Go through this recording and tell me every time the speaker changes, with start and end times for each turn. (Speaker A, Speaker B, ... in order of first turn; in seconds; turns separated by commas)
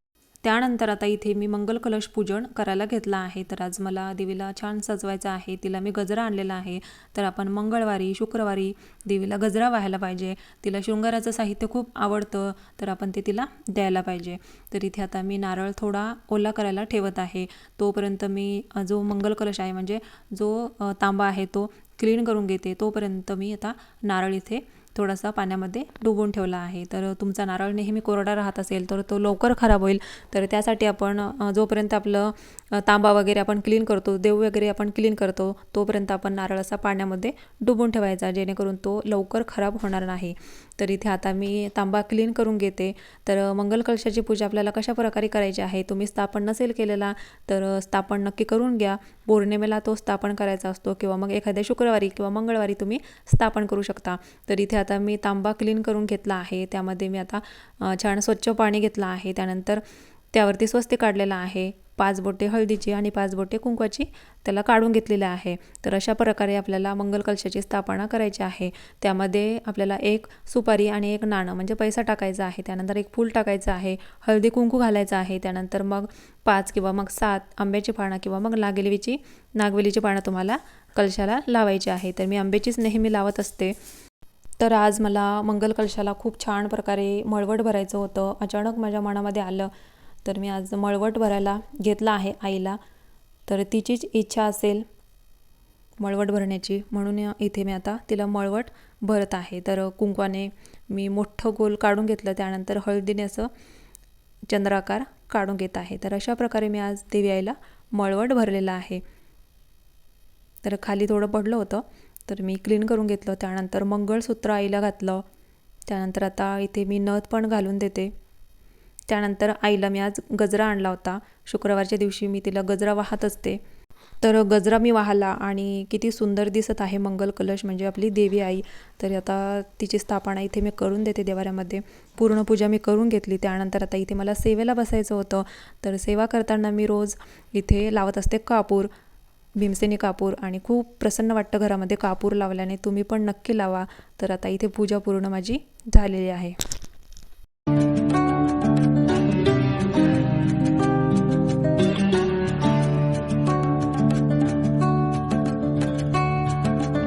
Speaker A: 0.4-83.8, Speaker A: 84.6-89.7, Speaker A: 90.2-92.8, Speaker A: 93.5-94.9, Speaker A: 96.0-103.5, Speaker A: 104.5-109.0, Speaker A: 110.6-115.2, Speaker A: 115.9-118.1, Speaker A: 119.1-123.6, Speaker A: 124.2-138.9, Speaker A: 139.5-146.6